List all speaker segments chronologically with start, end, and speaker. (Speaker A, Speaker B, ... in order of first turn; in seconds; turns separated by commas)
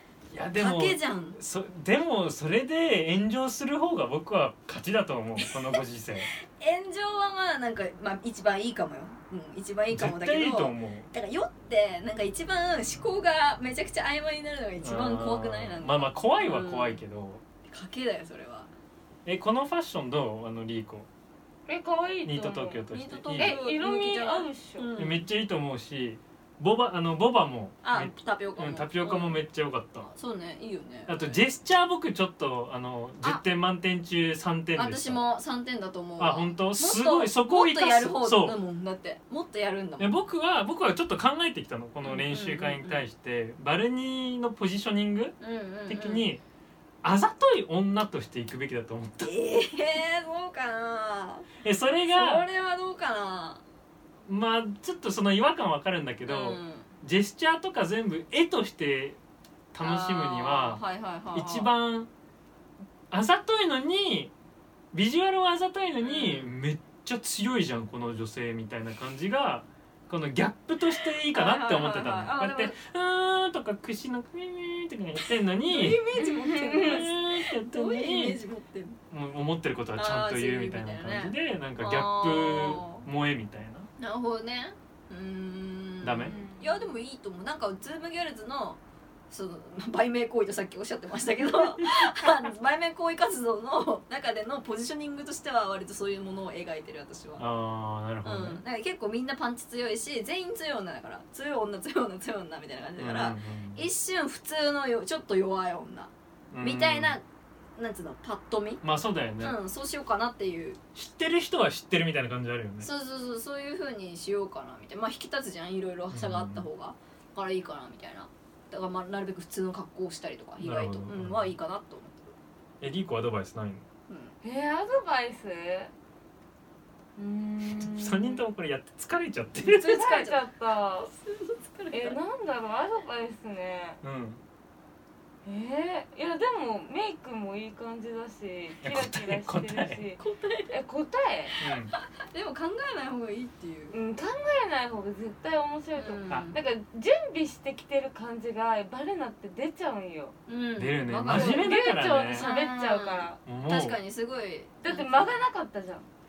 Speaker A: 0.3-6.3, Speaker B: 0.5-1.4, Speaker B: 6.4-17.0, Speaker A: 9.9-11.1, Speaker A: 14.8-17.4, Speaker B: 17.7-18.7, Speaker A: 19.2-21.1, Speaker C: 21.7-22.8, Speaker A: 22.2-23.6, Speaker B: 22.9-25.2, Speaker C: 23.3-24.9, Speaker A: 25.0-30.1, Speaker B: 27.8-29.4, Speaker B: 30.1-31.4, Speaker A: 31.1-35.2, Speaker B: 34.8-40.2, Speaker A: 36.2-38.6, Speaker A: 40.0-45.4, Speaker B: 42.0-43.0, Speaker B: 45.4-46.3, Speaker A: 45.9-46.4, Speaker A: 47.0-49.3, Speaker B: 49.2-51.5, Speaker A: 51.6-52.5, Speaker B: 52.1-53.6, Speaker A: 54.2-59.2, Speaker B: 56.3-56.9, Speaker A: 59.7-60.8, Speaker B: 59.8-61.7, Speaker A: 61.3-62.1, Speaker A: 63.1-64.3, Speaker A: 64.9-76.0, Speaker B: 66.0-66.5, Speaker B: 71.2-72.8, Speaker B: 75.6-79.0, Speaker C: 76.2-77.0, Speaker A: 76.7-78.4, Speaker A: 79.1-83.9, Speaker B: 80.0-83.0, Speaker B: 84.0-97.5, Speaker A: 86.0-86.4, Speaker C: 86.3-86.8, Speaker A: 97.4-98.6, Speaker B: 98.2-107.2, Speaker A: 103.0-103.9, Speaker A: 106.5-107.2, Speaker B: 107.8-108.8, Speaker A: 108.8-109.6, Speaker B: 109.4-110.8, Speaker A: 111.0-112.9, Speaker B: 112.8-122.3, Speaker A: 116.1-116.7, Speaker A: 120.6-121.5, Speaker A: 122.8-123.8, Speaker B: 124.1-124.3, Speaker C: 124.4-125.9, Speaker C: 127.2-128.4, Speaker A: 127.8-129.9, Speaker B: 129.6-130.4, Speaker C: 129.9-131.1, Speaker B: 131.0-132.2, Speaker C: 131.9-134.0, Speaker A: 134.0-134.4, Speaker C: 135.4-141.6, Speaker A: 138.8-140.0, Speaker B: 140.2-140.8, Speaker A: 141.6-141.9, Speaker B: 142.3-144.0, Speaker C: 143.9-150.3, Speaker B: 146.0-146.6, Speaker B: 150.5-151.7, Speaker A: 150.8-152.4, Speaker C: 151.3-153.4, Speaker B: 152.3-155.4, Speaker A: 153.4-154.0, Speaker C: 154.8-156.1